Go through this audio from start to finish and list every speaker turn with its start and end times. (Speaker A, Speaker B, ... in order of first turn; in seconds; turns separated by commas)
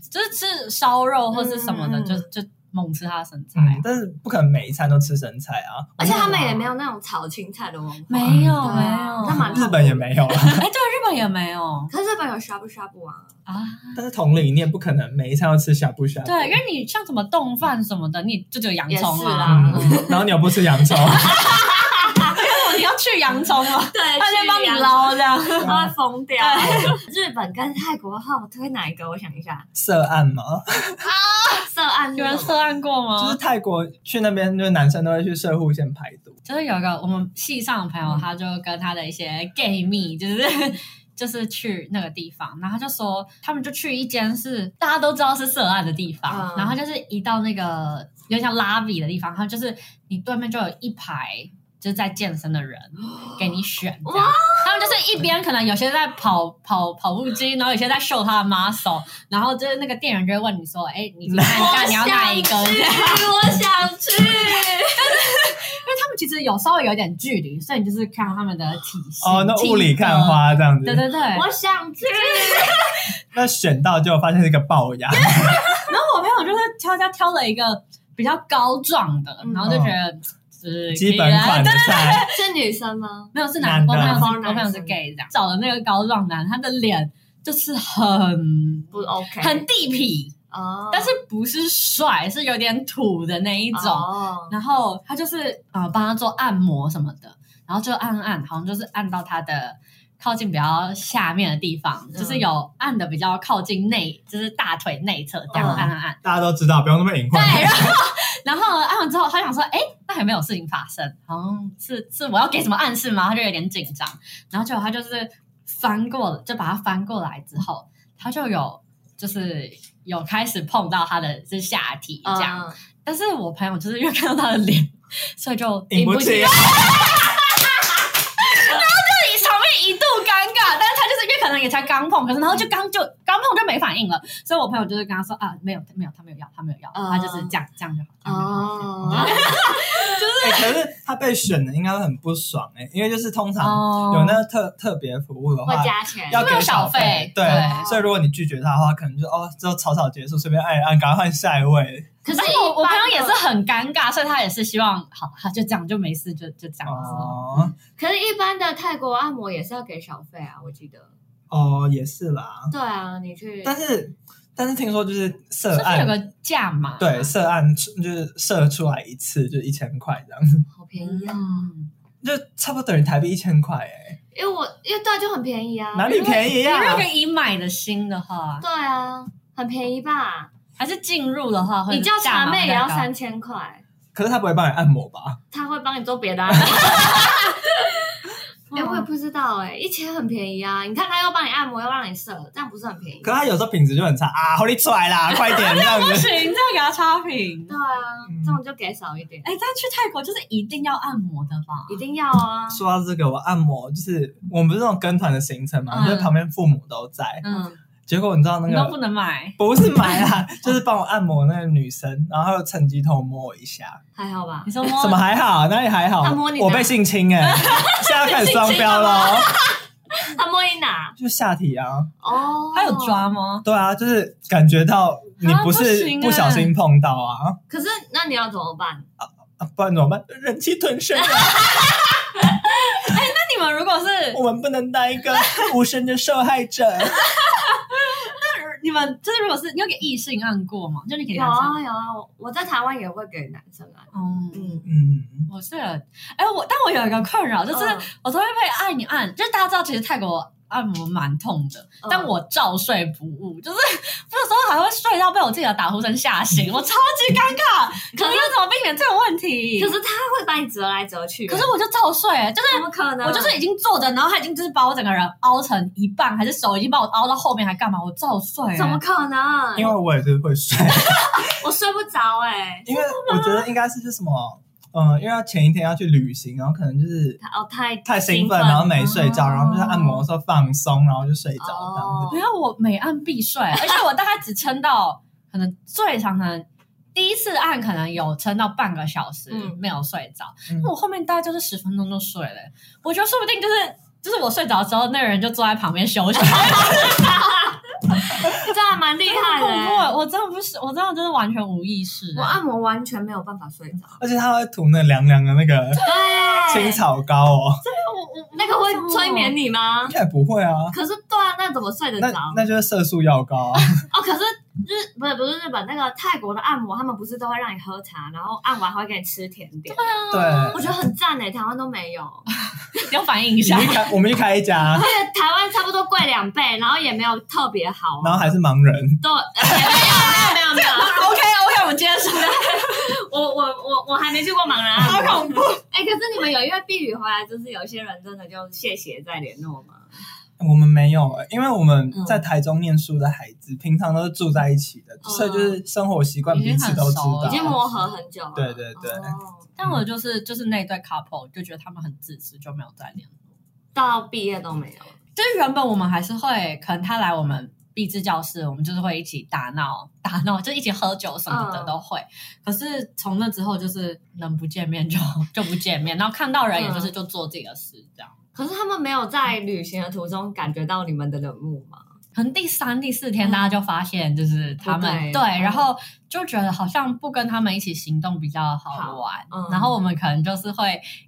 Speaker A: 0.1-3.8, Speaker B: 1.3-2.3, Speaker C: 3.6-6.7, Speaker B: 6.0-10.3, Speaker A: 8.1-9.7, Speaker C: 8.2-10.6, Speaker A: 10.5-11.9, Speaker B: 11.9-13.3, Speaker A: 13.5-14.0, Speaker C: 13.9-16.6, Speaker A: 16.2-20.2, Speaker B: 18.9-20.2, Speaker C: 19.4-21.5, Speaker B: 21.1-22.5, Speaker A: 21.1-25.9, Speaker B: 23.4-29.7, Speaker C: 25.6-25.9, Speaker A: 26.4-27.0, Speaker C: 26.6-26.9, Speaker C: 29.8-31.0, Speaker A: 31.0-33.4, Speaker B: 31.6-32.6, Speaker C: 33.2-36.4, Speaker A: 36.5-63.3, Speaker B: 46.3-46.8, Speaker B: 53.1-53.5, Speaker B: 54.0-55.0, Speaker C: 61.3-61.7, Speaker B: 61.5-65.2, Speaker A: 64.9-71.5, Speaker C: 69.2-71.0, Speaker B: 71.3-72.9, Speaker A: 72.0-73.0, Speaker C: 73.3-75.7, Speaker A: 75.1-82.4, Speaker B: 79.4-79.8, Speaker C: 79.6-80.0, Speaker C: 80.9-82.3, Speaker B: 82.3-83.3, Speaker A: 83.3-90.3, Speaker C: 83.6-84.3, Speaker B: 83.9-85.0, Speaker B: 88.9-89.7, Speaker B: 90.5-91.2, Speaker A: 90.9-106.2, Speaker B: 93.7-94.5, Speaker B: 102.1-102.5, Speaker C: 105.5-108.0, Speaker B: 105.5-105.9, Speaker A: 107.3-140.8, Speaker B: 122.2-122.8, Speaker C: 125.9-126.9, Speaker B: 136.9-137.5, Speaker B: 138.2-140.1, Speaker C: 139.0-139.6, Speaker C: 140.4-152.1, Speaker A: 143.6-144.4, Speaker B: 145.7-146.6, Speaker A: 146.3-147.9, Speaker B: 147.4-148.1, Speaker B: 152.2-153.4, Speaker A: 152.3-157.4, Speaker C: 156.8-157.7, Speaker B: 157.0-161.1, Speaker C: 161.5-162.7, Speaker B: 162.7-163.8, Speaker C: 163.6-166.2, Speaker A: 165.7-167.3, Speaker C: 167.0-170.7, Speaker B: 170.8-171.7, Speaker A: 171.0-171.9, Speaker C: 172.2-174.2, Speaker B: 174.3-176.4, Speaker C: 175.9-177.1, Speaker A: 176.1-178.7, Speaker B: 178.6-180.5, Speaker A: 180.8-183.1, Speaker B: 181.9-183.8, Speaker C: 184.1-185.4, Speaker B: 185.5-193.3, Speaker C: 186.6-186.8, Speaker A: 186.8-187.6, Speaker A: 188.7-189.1, Speaker C: 193.2-196.4, Speaker A: 195.3-197.8, Speaker B: 197.7-199.5, Speaker C: 198.3-198.6, Speaker A: 199.4-202.0, Speaker B: 201.9-202.8, Speaker C: 202.7-207.4, Speaker A: 205.9-206.3, Speaker A: 207.4-207.8, Speaker B: 207.4-207.8, Speaker C: 208.1-209.0, Speaker A: 208.7-209.6, Speaker C: 209.6-214.0, Speaker B: 214.2-214.8, Speaker A: 214.7-215.2, Speaker C: 214.9-219.5, Speaker B: 216.2-217.0, Speaker A: 217.5-219.5, Speaker B: 217.7-221.2, Speaker C: 221.2-222.1, Speaker B: 222.2-223.3, Speaker A: 222.7-223.7, Speaker C: 223.6-227.6, Speaker A: 225.4-226.7, Speaker B: 227.7-229.1, Speaker C: 229.2-232.0, Speaker B: 231.2-231.8, Speaker A: 232.9-234.4, Speaker C: 234.3-237.3, Speaker A: 235.3-235.7, Speaker A: 237.3-241.8, Speaker B: 241.3-244.9, Speaker A: 244.1-244.9, Speaker C: 244.9-245.5, Speaker A: 245.5-259.9, Speaker B: 247.7-248.1, Speaker B: 252.0-252.3, Speaker B: 258.1-258.5, Speaker B: 259.8-261.7, Speaker A: 261.5-269.0, Speaker B: 262.7-263.6, Speaker B: 268.8-270.0, Speaker C: 269.8-271.5, Speaker B: 271.1-272.9, Speaker C: 272.9-277.4, Speaker A: 272.9-273.7, Speaker B: 277.4-279.0, Speaker C: 278.1-282.3, Speaker A: 279.0-280.0, Speaker B: 279.6-280.2, Speaker B: 281.6-282.4, Speaker A: 282.3-297.5, Speaker B: 289.5-289.8, Speaker B: 296.5-300.1, Speaker A: 299.3-302.6, Speaker B: 302.4-304.2, Speaker C: 304.2-307.8, Speaker A: 306.0-306.4, Speaker B: 306.0-307.0, Speaker A: 307.8-309.6, Speaker B: 308.6-310.2, Speaker C: 310.1-311.0, Speaker B: 310.9-312.6, Speaker C: 312.2-314.1, Speaker B: 314.1-323.0, Speaker A: 319.9-320.8, Speaker C: 320.3-320.9, Speaker A: 322.9-324.1, Speaker C: 323.6-325.1, Speaker B: 324.9-328.5, Speaker C: 328.2-330.0, Speaker B: 329.2-331.4, Speaker A: 329.7-333.1, Speaker B: 332.3-340.1, Speaker A: 334.9-335.8, Speaker C: 340.6-347.8, Speaker B: 342.1-342.4, Speaker B: 345.2-345.8, Speaker A: 346.5-348.1, Speaker B: 347.4-349.7, Speaker C: 348.6-350.0, Speaker A: 349.8-353.4, Speaker B: 353.9-355.2, Speaker A: 355.4-368.3, Speaker B: 361.5-362.0, Speaker B: 366.8-367.1, Speaker B: 368.6-372.1, Speaker A: 372.4-381.0, Speaker B: 373.4-373.7, Speaker B: 374.8-375.9, Speaker B: 378.9-380.0